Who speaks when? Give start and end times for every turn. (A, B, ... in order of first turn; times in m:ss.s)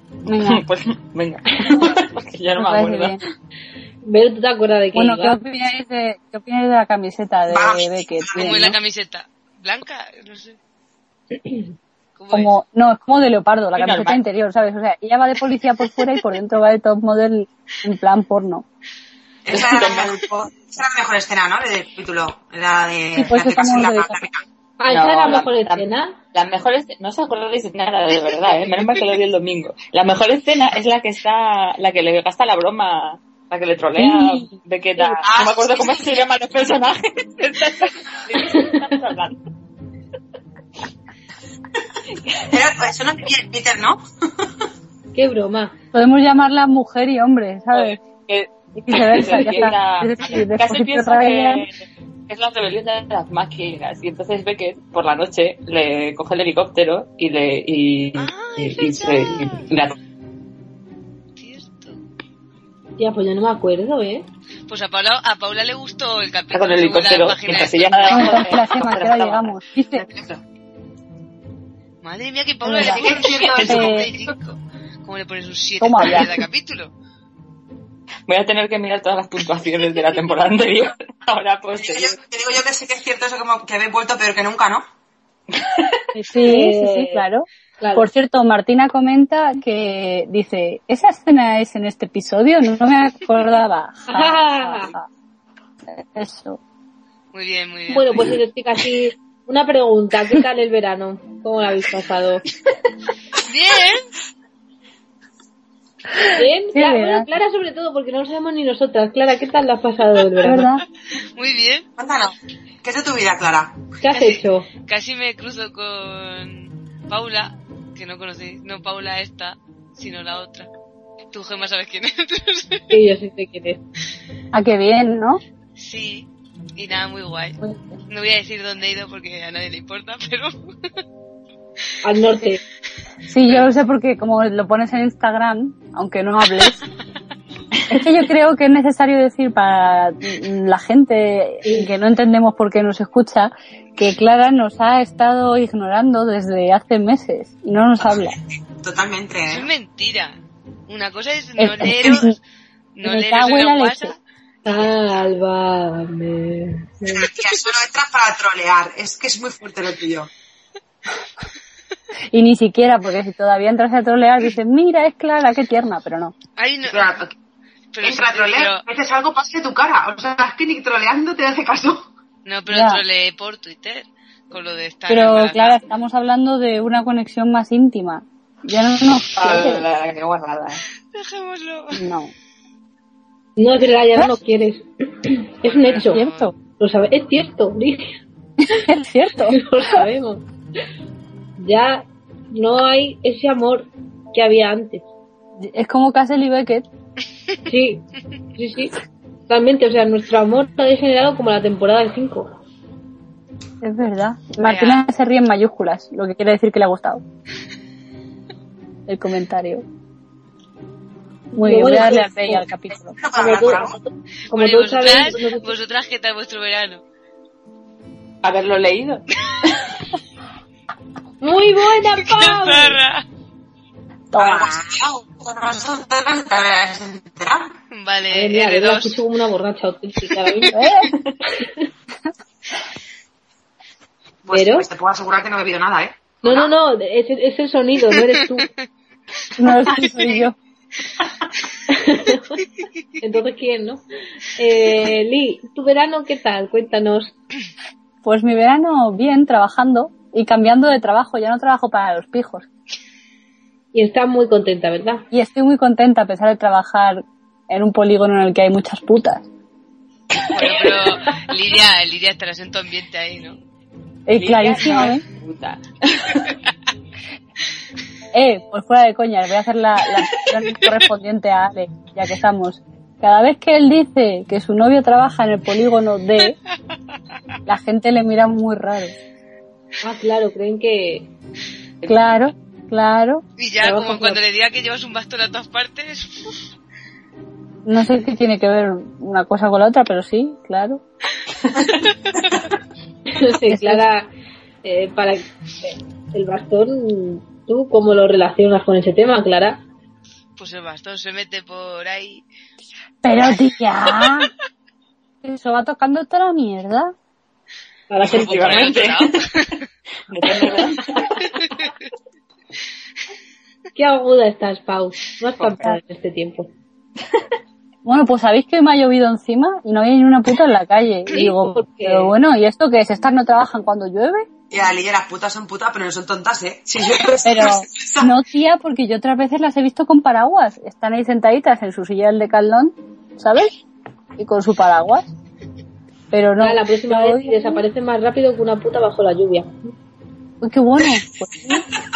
0:00.2-0:00.6 A
0:00.3-0:03.2 B
0:02.6-0:03.2 A
0:04.0-0:05.4 C
0:04.9-0:08.8 A
0:07.5-0:08.6 D
0:08.3-0:10.6 E
0:12.2-0:12.5 E
0:12.3-0:18.6 A
0:13.7-0:14.2 B
0:19.4-0:24.4 D
0:19.5-0:20.3 B
0:23.1-0:24.2 A
0:24.8-0:26.2 C
0:24.9-0:39.4 B
0:34.0-0:34.6 A
0:35.2-0:36.2 D
0:42.5-0:44.5 D
0:45.1-0:45.8 C
0:45.9-0:48.0 A
0:47.7-1:00.0 B
0:48.8-0:51.6 A
0:58.1-0:59.7 E
1:01.4-1:02.0 E
1:03.0-1:04.2 C
1:04.7-1:08.4 E
1:06.5-1:10.4 B
1:08.1-1:10.0 A
1:12.0-1:16.9 E
1:12.6-1:13.0 A
1:12.8-1:14.3 D
1:13.6-1:14.1 A
1:15.8-1:16.3 A
1:18.3-1:22.2 B
1:21.8-1:24.8 D
1:25.5-1:26.0 B
1:26.1-1:35.1 A
1:26.4-1:27.2 C
1:27.8-1:28.1 C
1:34.1-1:34.9 C
1:35.9-1:36.6 A
1:37.3-1:38.4 E
1:37.9-1:42.4 C
1:43.4-1:44.1 E
1:46.2-1:47.3 A
1:46.2-1:50.7 C
1:50.4-1:50.8 A
1:51.4-1:51.8 E
1:52.0-1:53.8 D
1:54.0-1:54.7 C
1:54.1-2:00.7 E
2:01.3-2:03.0 E
2:02.9-2:03.8 C
2:04.5-2:05.4 A
2:05.8-2:07.6 E
2:08.1-2:10.5 E
2:12.0-2:12.6 C
2:13.3-2:16.8 A
2:17.7-2:18.1 B
2:17.9-2:28.4 A
2:28.8-2:29.7 D
2:29.5-2:30.4 E
2:30.9-2:32.3 E
2:31.6-2:32.4 A
2:32.9-2:34.2 E
2:33.0-2:34.1 A
2:34.6-2:37.3 C
2:37.1-2:40.3 D
2:42.3-2:46.3 A
2:46.6-2:47.2 E
2:46.8-2:47.3 D
2:47.9-2:48.8 E
2:48.0-2:52.1 D
2:52.4-2:55.8 E
2:52.7-2:53.0 A
2:55.1-2:59.8 A
2:59.3-3:00.8 B
3:01.1-3:02.0 E
3:01.9-3:02.3 A
3:03.6-3:06.2 C
3:05.7-3:06.5 E
3:06.1-3:06.5 A
3:06.8-3:08.2 C
3:08.6-3:09.6 A
3:09.5-3:10.4 C
3:11.6-3:15.0 C
3:15.6-3:16.8 A
3:17.7-3:18.0 C
3:18.6-3:18.9 C
3:19.5-3:22.5 C
3:23.8-3:27.2 A
3:24.6-3:25.0 E
3:29.1-3:29.8 A
3:31.5-3:33.2 A
3:31.6-3:32.6 C
3:33.1-3:34.0 D
3:33.3-3:35.7 C
3:34.5-3:37.0 E
3:38.4-3:39.9 B
3:41.4-3:43.0 C
3:42.1-3:43.2 E
3:44.3-3:44.6 A
3:44.3-3:47.7 D
3:47.9-3:49.2 E
3:48.3-3:50.8 C
3:50.7-3:51.1 A
3:51.4-3:51.9 C
3:54.4-3:56.7 D
3:54.5-3:54.9 C
3:56.4-3:58.7 C
3:59.6-4:00.6 A
4:01.9-4:02.6 C
4:03.2-4:04.0 C
4:04.6-4:07.3 C
4:08.2-4:12.7 A
4:13.9-4:15.2 C
4:15.3-4:19.4 A
4:20.5-4:23.6 E
4:20.6-4:21.5 C
4:24.3-4:25.2 A
4:24.3-4:26.6 B
4:28.3-4:36.6 A
4:37.7-4:39.2 A
4:40.0-4:41.3 C
4:42.1-4:43.4 A
4:43.6-4:46.5 E
4:43.8-4:44.4 C
4:47.8-4:51.0 A
4:53.3-4:54.3 C
4:53.7-4:54.0 A
4:54.8-4:59.8 C
5:00.6-5:02.4 E
5:03.2-5:04.5 A
5:05.4-5:07.1 A
5:08.1-5:08.9 C
5:08.2-5:09.7 B
5:08.2-5:09.8 E
5:10.3-5:11.6 B
5:10.7-5:10.9 C
5:14.0-5:16.7 C
5:15.6-5:15.8 B
5:18.0-5:24.4 A
5:21.3-5:22.3 C
5:24.7-5:28.3 D
5:27.4-5:33.7 A
5:34.4-5:35.3 A
5:36.3-5:37.8 A
5:36.6-5:39.9 C
5:40.6-5:41.8 A